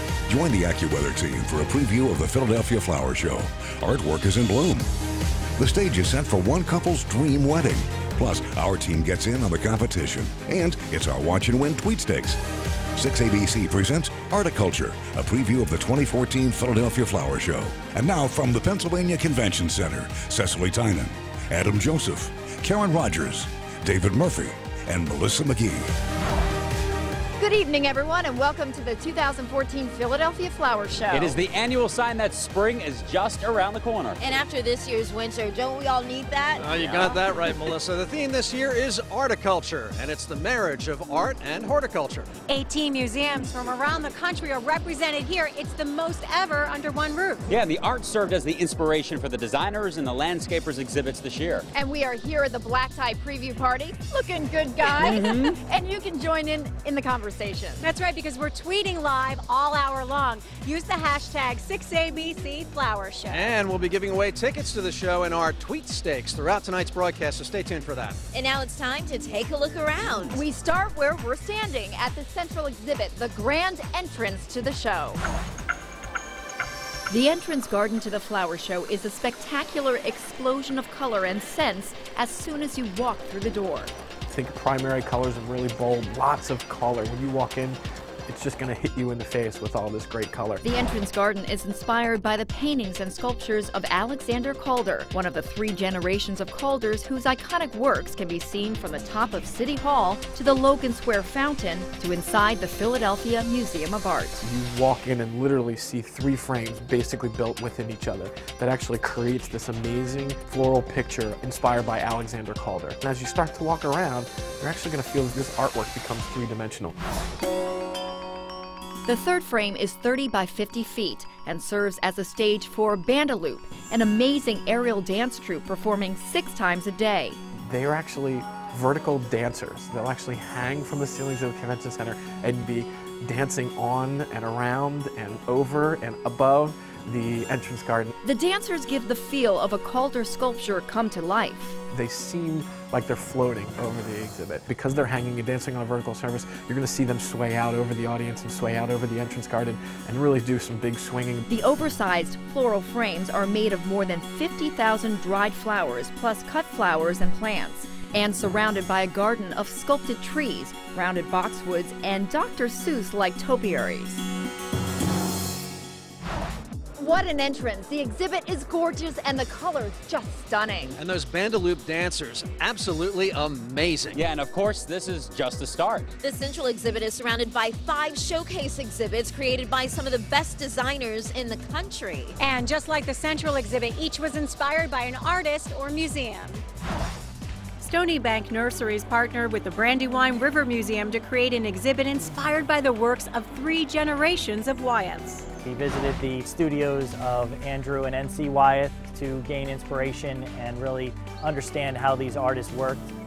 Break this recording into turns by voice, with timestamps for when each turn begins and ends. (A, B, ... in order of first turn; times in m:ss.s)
0:00.3-0:04.9 A
0:05.6-0:12.4 A
0:13.0-0:25.9 A
0:27.4-0:31.4 B
0:31.1-0:34.2 C
0:34.2-0:37.1 D
0:36.6-0:42.3 E
0:36.7-0:37.6 C
0:42.5-0:47.5 F
0:47.5-0:51.7 C
0:51.7-0:57.8 B
0:57.8-1:03.5 F
1:03.3-1:08.2 E
1:08.3-1:10.3 D
1:10.3-1:15.2 B
1:17.1-1:23.9 B
1:24.3-1:30.6 G
1:30.6-1:44.4 B
1:44.4-1:57.0 G
1:59.1-2:07.4 B
2:07.7-2:18.1 G
2:18.2-2:21.8 B
2:21.9-2:31.5 G
2:31.5-2:44.3 B
2:47.0-2:51.0 B
2:51.0-2:54.2 E
2:54.1-2:56.1 C
2:56.2-3:02.3 D
3:02.4-3:06.6 F
3:07.8-3:15.5 F
3:15.6-3:23.1 H